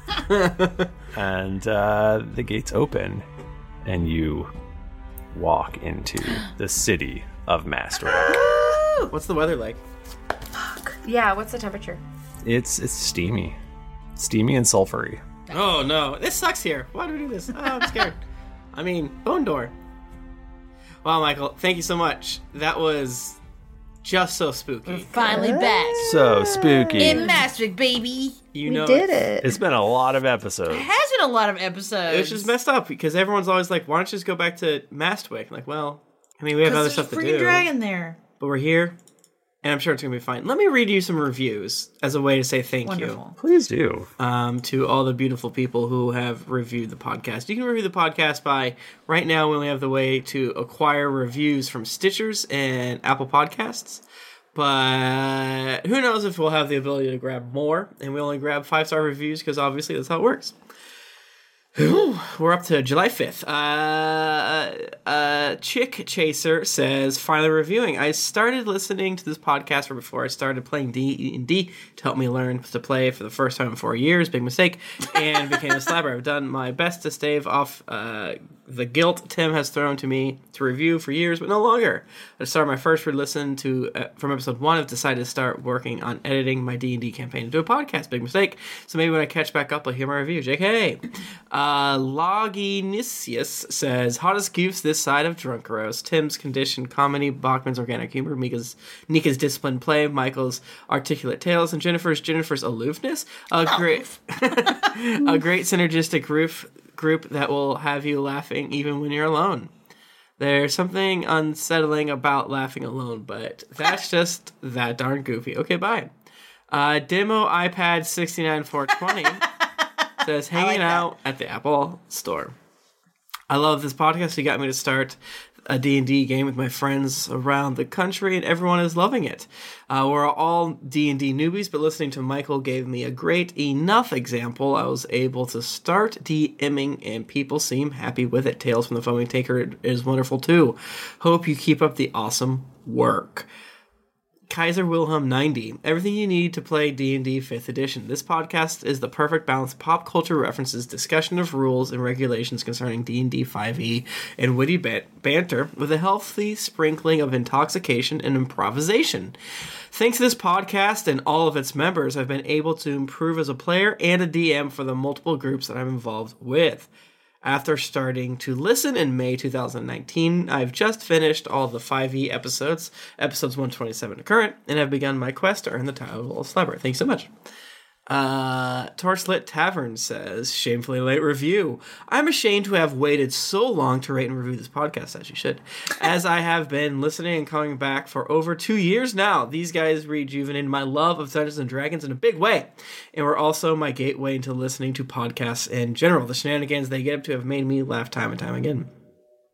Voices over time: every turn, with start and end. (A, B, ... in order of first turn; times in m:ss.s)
0:00.3-0:00.9 A
0:01.1-0:03.2 B
0:03.8-0:04.5 B
0:05.3-0:08.4 B
0:08.2-0:09.1 C
0:09.1-0:09.8 A
0:10.6-0:12.0 D
0:12.4-0:13.6 B
0:14.2-0:15.2 B
0:15.5-0:18.2 A
0:18.7-0:19.7 A
0:21.0-0:23.4 A
0:24.0-0:25.1 A
0:24.9-0:26.0 C
0:25.3-0:27.4 D
0:26.0-0:27.3 B
0:27.0-0:28.4 C
0:28.5-0:29.3 A
0:28.7-0:29.5 D
0:29.4-0:30.9 B
0:30.7-0:32.5 C
0:32.1-0:37.7 A
0:36.6-0:38.2 C
0:38.4-0:39.0 A
0:39.6-0:43.2 A
0:42.8-0:43.4 C
0:43.4-0:44.1 B
0:44.2-0:54.0 A
0:54.6-1:00.6 A
1:01.8-1:49.7 A
1:50.4-1:56.1 A
1:56.7-1:59.4 A
2:00.2-2:02.6 A
2:00.5-2:01.1 C
2:03.5-2:23.5 A
2:24.5-2:39.4 A
2:39.9-2:46.9 A
2:47.4-2:57.3 A
2:58.1-3:18.9 A